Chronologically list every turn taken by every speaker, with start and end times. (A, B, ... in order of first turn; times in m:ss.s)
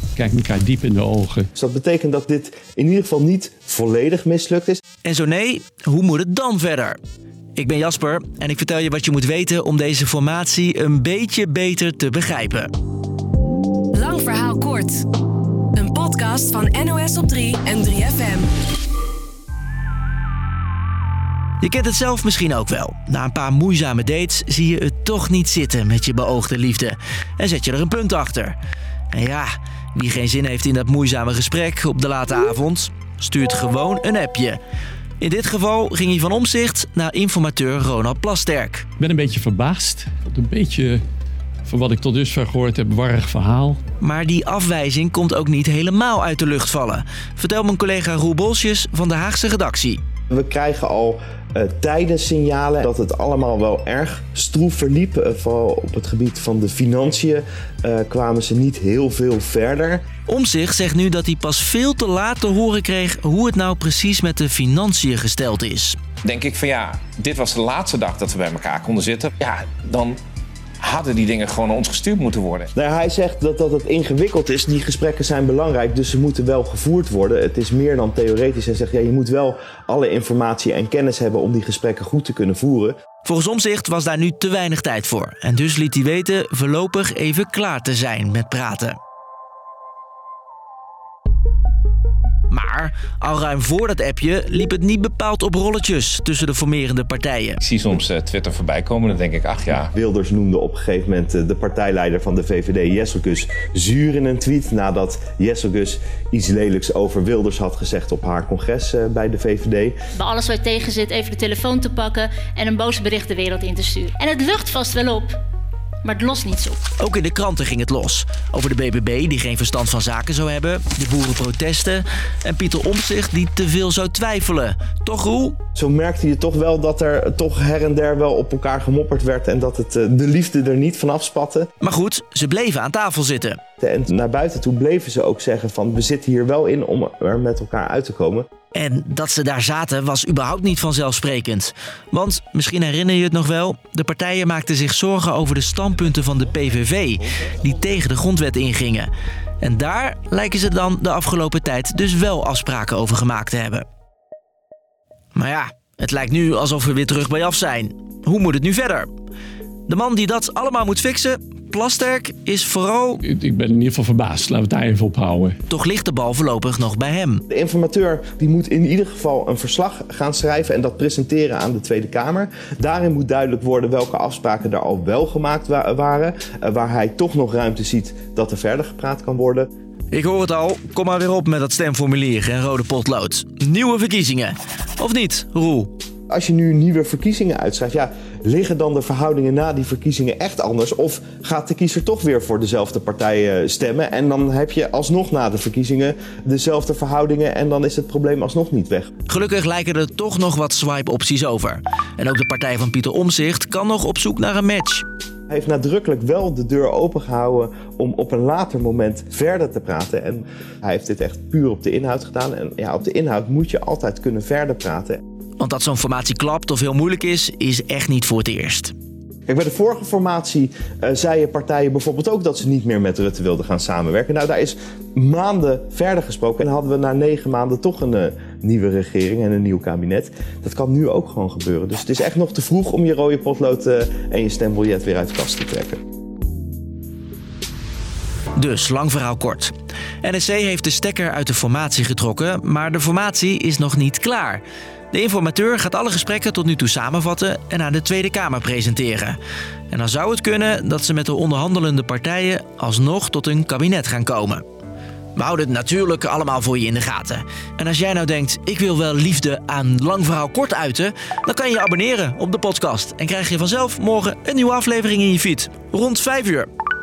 0:00.2-0:01.5 A
0:01.5-0:04.8 B
0:05.0-0:07.0 C
0:07.6-0:12.7 C
0:13.9-0:15.1 D
0:15.7-0:18.5 D
0:21.6-0:28.6 C
0:29.1-0:34.6 C
0:35.2-0:38.8 C
0:39.0-0:41.0 A
0:41.6-0:43.8 A
0:44.0-0:50.0 C
0:50.3-1:00.0 B
1:00.3-1:06.0 C
1:06.2-1:10.2 E
1:10.8-1:12.7 E
1:12.7-1:23.0 B
1:23.2-1:29.0 C
1:32.5-1:37.6 C
1:37.6-1:39.9 E
1:39.9-1:50.0 B
1:50.2-1:55.4 F
1:56.0-1:56.8 F
1:57.0-2:05.6 C
2:05.8-2:11.7 B
2:11.8-2:13.6 C
2:13.8-2:18.4 B
2:18.7-2:29.1 C
2:29.6-2:33.8 C
2:35.3-2:39.1 C
2:39.9-2:43.2 C
2:43.2-2:45.6 A
2:45.7-2:47.4 C
2:47.5-2:59.7 B
3:00.1-3:05.9 C
3:06.3-3:19.1 B
3:19.3-3:25.0 C
3:25.5-3:35.2 B
3:35.6-3:38.9 C
3:39.5-3:56.0 B
3:58.6-4:09.4 C
4:09.9-4:14.6 C
4:15.4-4:26.7 C